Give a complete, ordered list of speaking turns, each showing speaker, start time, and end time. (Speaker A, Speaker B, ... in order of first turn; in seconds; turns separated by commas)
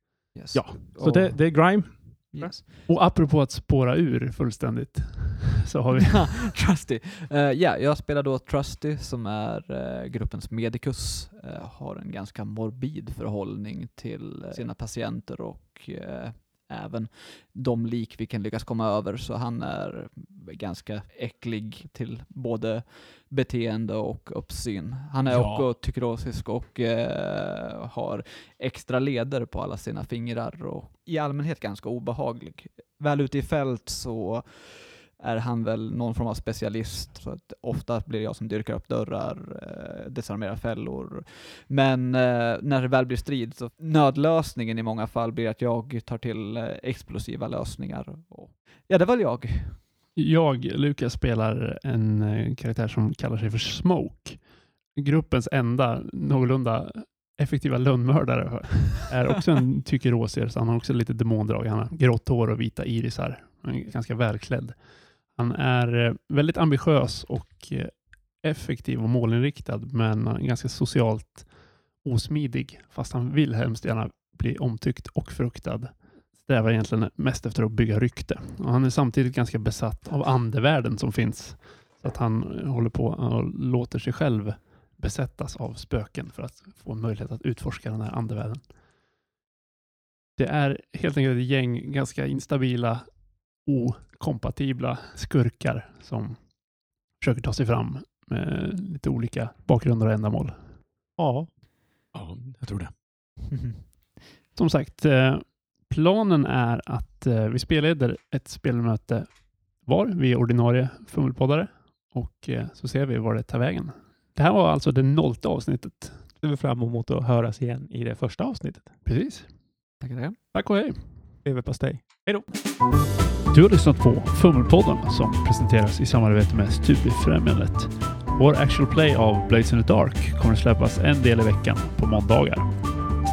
Speaker A: 0.3-2.9, Speaker B: 0.5-2.5, Speaker C: 2.9-6.5, Speaker A: 5.9-49.9, Speaker B: 25.3-25.7, Speaker C: 50.1-88.8, Speaker C: 90.4-96.6, Speaker C: 97.1-100.8, Speaker D: 101.2-101.5, Speaker B: 102.1-102.9, Speaker A: 103.5-103.8, Speaker C: 104.5-116.3, Speaker D: 116.4-118.9, Speaker C: 119.0-119.7, Speaker A: 120.0-120.4, Speaker C: 120.5-121.3, Speaker D: 121.4-122.3, Speaker C: 123.5-132.9